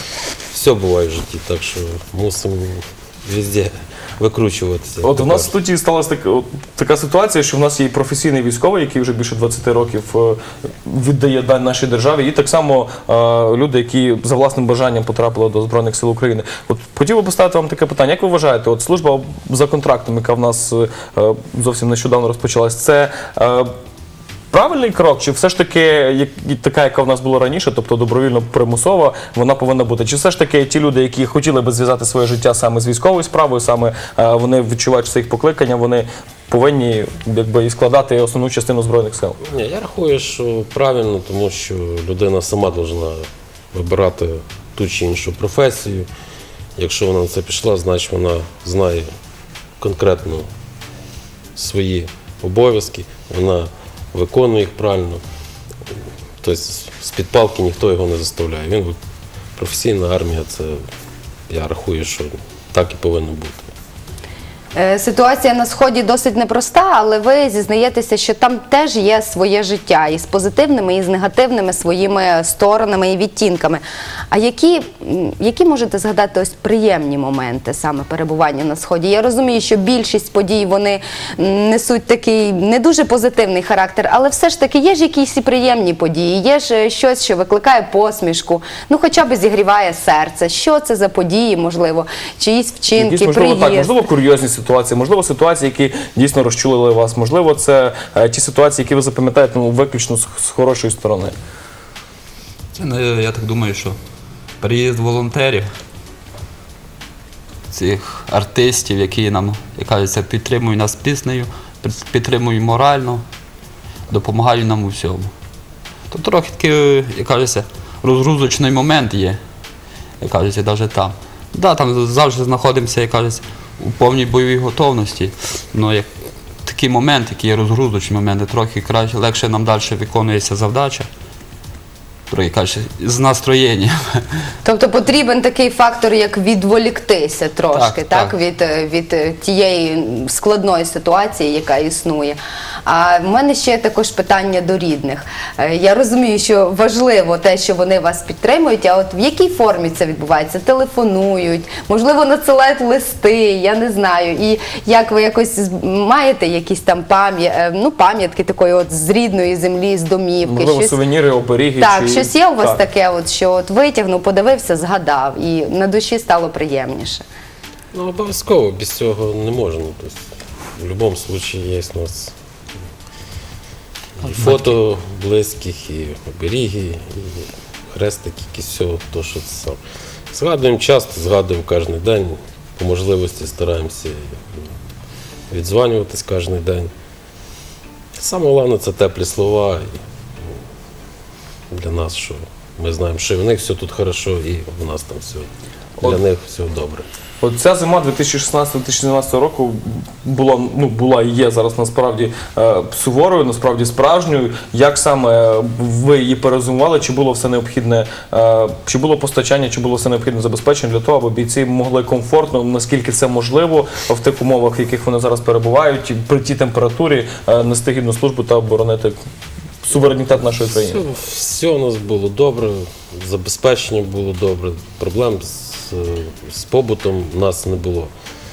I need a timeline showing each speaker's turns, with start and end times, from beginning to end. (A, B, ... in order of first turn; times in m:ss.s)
0:00.5-0:05.5 A
0:05.0-0:23.7 B
0:24.5-0:39.4 B
0:39.4-0:46.1 A
0:46.8-0:49.1 A
0:49.8-0:50.5 A
0:51.5-0:55.2 A
0:56.4-0:59.0 A
0:59.6-1:00.8 A
1:01.5-1:03.7 A
1:04.7-1:33.9 C
1:32.9-1:41.3 B
1:42.7-1:44.0 D
1:44.6-1:45.7 D
1:47.7-1:53.2 D
1:54.1-1:55.3 D
1:56.1-1:59.4 D
2:00.2-2:06.1 D
2:06.6-2:11.1 D
2:12.3-2:14.2 D
2:14.6-2:41.0 C
2:17.7-2:18.3 D
2:40.4-2:42.8 B
2:41.8-2:47.2 C
2:47.9-2:52.3 A
2:54.2-2:59.8 A
3:00.3-3:04.7 A
3:05.5-3:06.9 A
3:08.2-3:10.0 A
3:11.7-3:17.1 A
3:17.4-3:39.2 B
3:39.8-3:41.0 B
3:40.7-3:48.1 A